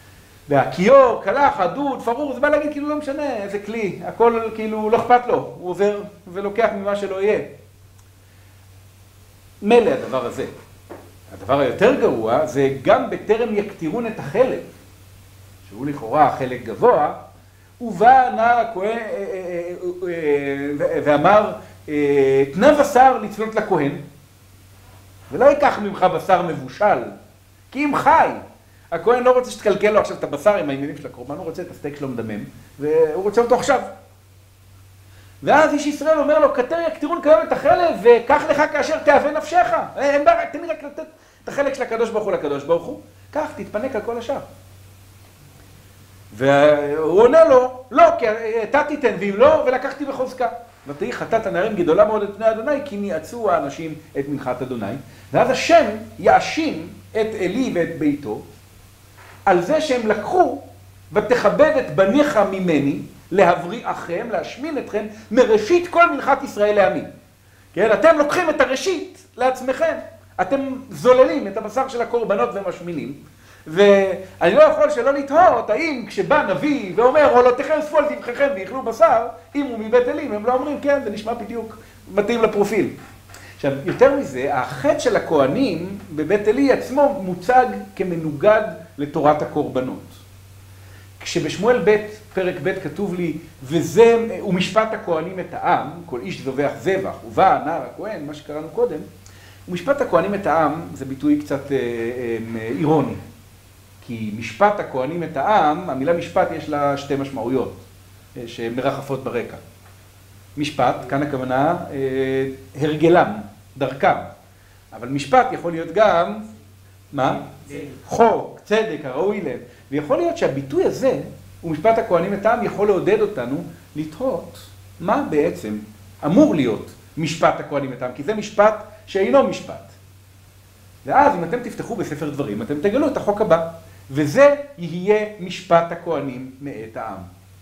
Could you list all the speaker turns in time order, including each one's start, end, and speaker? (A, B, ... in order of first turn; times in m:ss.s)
0:00.5-0:07.5 A
0:09.6-0:10.5 A
0:11.3-0:14.7 A
0:15.7-0:17.2 A
0:17.8-0:24.0 A
0:25.3-0:27.1 A
0:27.7-0:33.9 A
0:35.4-0:44.5 A
0:46.3-0:58.4 A
0:59.5-1:07.1 A
1:07.7-1:23.0 A
1:23.6-1:30.2 A
1:31.2-1:39.1 A
1:39.7-1:43.2 A
1:44.0-1:47.8 A
1:48.4-1:49.6 A
1:50.6-1:54.3 A
1:54.9-1:56.5 A
1:57.1-2:09.9 A
2:11.0-2:17.3 A